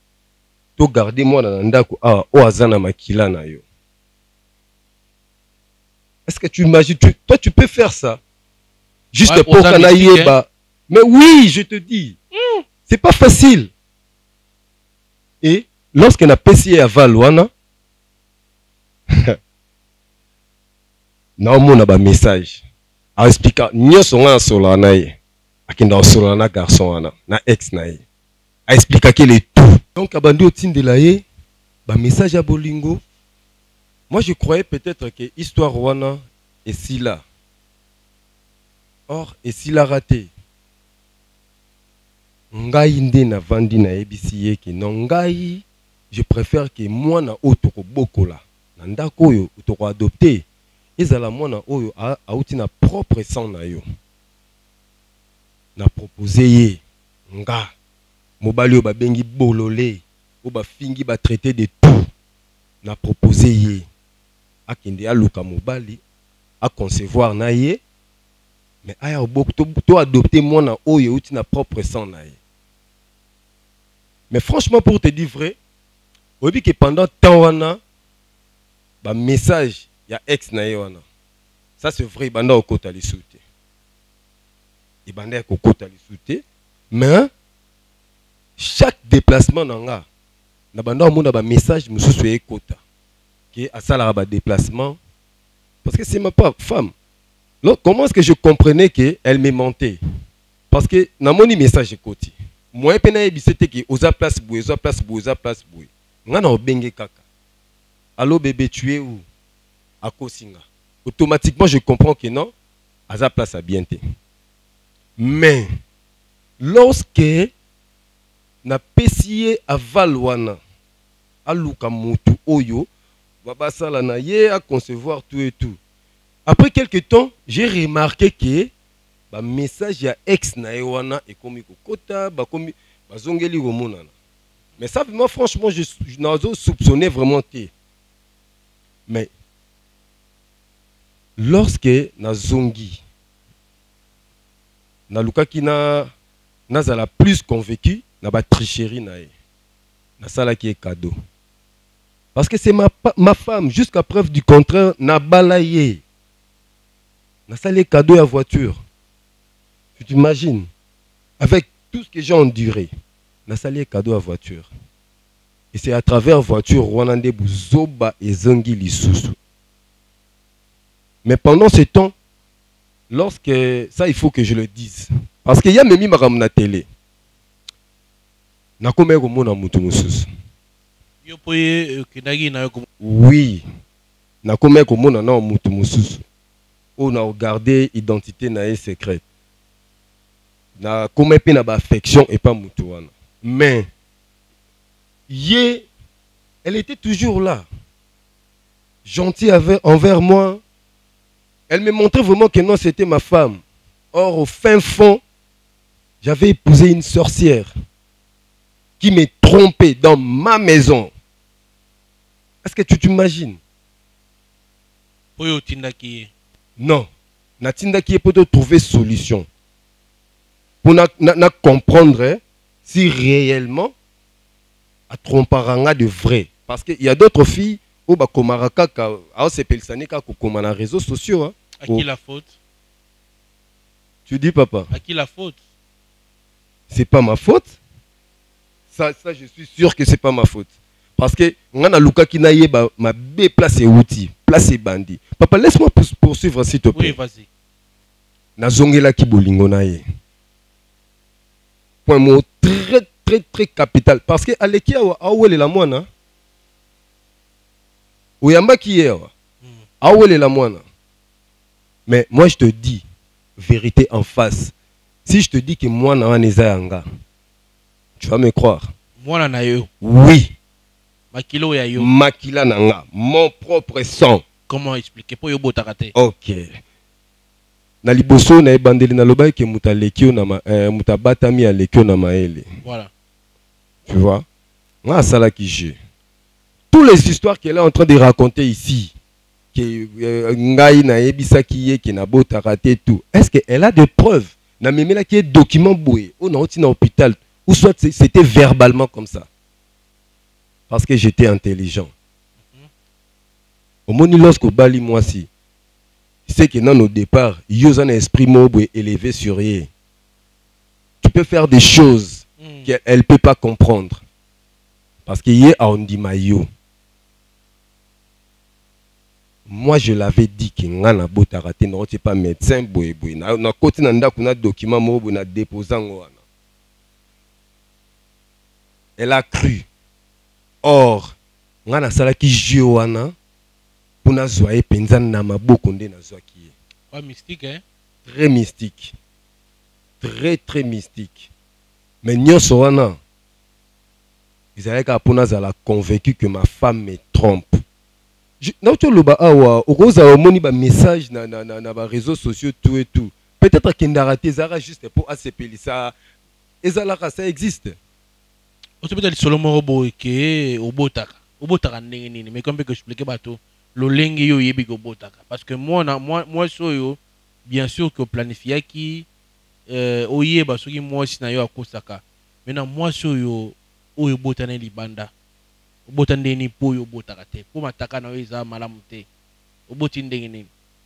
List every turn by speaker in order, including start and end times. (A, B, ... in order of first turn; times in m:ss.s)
0:00.8-0:03.6 A
0:06.3-0:08.2 A
0:09.1-0:12.2 A
0:09.2-0:10.3 B
0:12.3-0:12.6 B
0:12.9-0:13.7 A
0:15.4-0:17.5 A
0:21.4-0:22.6 A
0:23.2-0:25.1 A
0:25.7-0:28.0 A
0:28.7-0:31.2 A
0:31.9-0:33.0 A
0:34.1-0:37.2 A
0:39.1-0:40.3 A
0:42.5-0:50.4 A
0:51.0-0:53.8 A
0:55.8-0:57.7 A
0:58.4-1:02.1 A
1:02.8-1:03.8 A
1:04.7-1:06.0 A
1:06.6-1:07.8 A
1:08.8-1:12.4 A
1:14.3-1:15.6 A
1:16.4-1:17.8 A
1:19.0-1:21.0 A
1:21.8-1:23.4 A
1:25.0-1:27.3 A
1:28.6-1:30.0 A
1:30.7-1:32.8 A
1:33.5-1:35.0 A
1:35.8-1:36.9 A
1:37.6-1:40.0 A
1:40.7-1:47.2 A
1:48.2-1:49.2 A
1:50.0-1:52.5 A
1:53.1-1:54.0 A
1:55.2-1:55.7 A
1:56.6-1:57.5 A
1:58.6-2:00.6 A
2:01.4-2:02.9 A
2:03.4-2:05.8 A
2:06.4-2:08.7 A
2:09.3-2:14.1 A
2:14.8-2:17.7 A
2:21.4-2:23.0 A
2:25.1-2:26.1 A
2:26.7-2:29.3 A
2:30.2-2:31.1 A
2:32.3-2:36.0 A
2:37.5-2:38.8 A
2:40.0-2:40.7 A
2:41.4-2:42.9 A
2:43.5-2:44.7 A
2:45.7-2:49.4 A
2:51.2-2:52.1 A
2:53.1-2:56.8 A
2:58.8-3:00.3 A
3:01.2-3:02.9 B
3:03.0-3:03.6 A
3:04.4-3:06.2 A
3:07.0-3:09.2 A
3:10.8-3:13.9 A
3:15.3-3:15.9 A
3:16.6-3:17.7 A
3:19.0-3:20.6 A
3:21.7-3:23.6 A
3:24.1-3:25.2 A
3:26.2-3:27.7 A
3:29.0-3:31.1 A
3:32.6-3:33.6 A
3:35.4-3:36.3 B
3:36.8-3:37.1 A
3:37.6-3:39.5 A
3:40.8-3:43.9 A
3:45.1-3:52.0 A
3:51.8-3:52.5 B
3:54.3-3:54.9 A
3:54.9-3:55.6 B
3:56.9-3:57.7 A
3:58.9-4:07.2 A
4:06.9-4:07.5 B
4:08.6-4:10.0 A
4:12.0-4:16.1 A
4:18.4-4:19.3 A
4:20.0-4:20.8 A
4:22.1-4:23.0 A
4:23.6-4:24.7 A
4:25.2-4:27.0 A
4:28.2-4:28.8 A
4:29.2-4:29.9 B
4:30.0-4:30.5 A
4:31.3-4:32.1 B
4:32.0-4:34.4 A
4:34.7-4:36.1 B
4:36.2-4:36.7 A
4:38.0-4:42.6 A
4:42.8-4:43.1 B
4:44.1-4:44.4 A
4:45.0-4:46.0 A
4:46.9-4:49.1 A
4:49.7-4:59.5 A
5:00.9-5:02.1 A
5:04.1-5:05.5 A
5:06.5-5:09.9 A
5:11.2-5:14.2 A
5:12.6-5:12.9 B
5:15.2-5:16.7 A
5:19.7-5:26.4 A
5:29.2-5:29.8 A
5:30.8-5:31.3 A
5:31.8-5:33.3 A
5:34.2-5:36.7 A
5:37.1-5:37.8 B
5:38.2-5:39.1 A
5:40.2-5:41.5 A
5:42.2-5:43.2 A
5:44.8-5:47.8 A
5:48.6-5:56.1 A
5:56.8-5:58.0 A
5:59.0-6:09.2 B
6:09.9-6:15.3 B
6:16.1-6:19.2 B
6:19.9-6:20.7 B